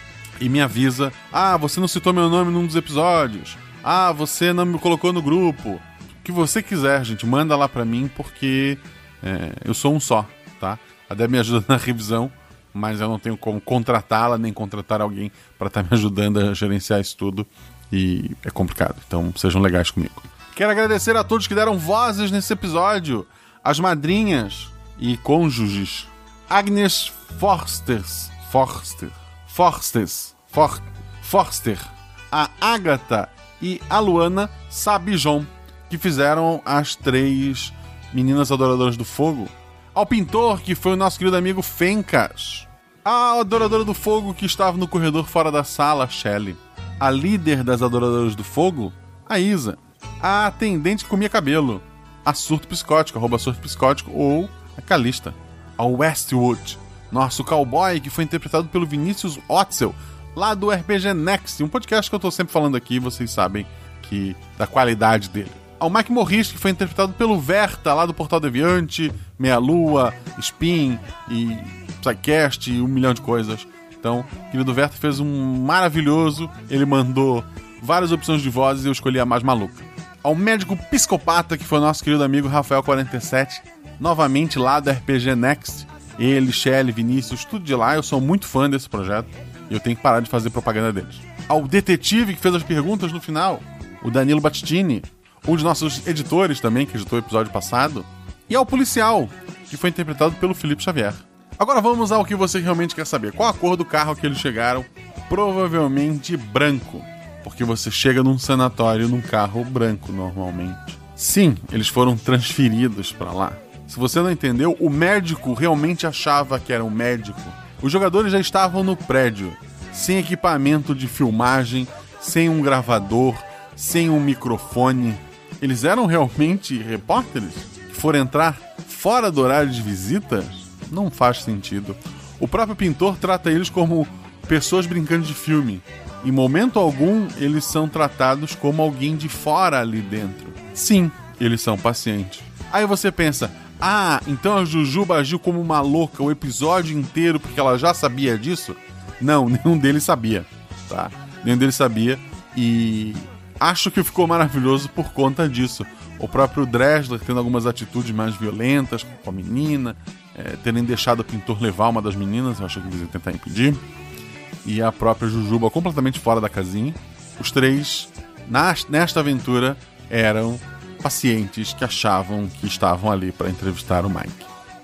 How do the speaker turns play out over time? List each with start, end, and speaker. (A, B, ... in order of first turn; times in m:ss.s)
0:00.4-2:43.8 A
2:44.6-2:54.5 A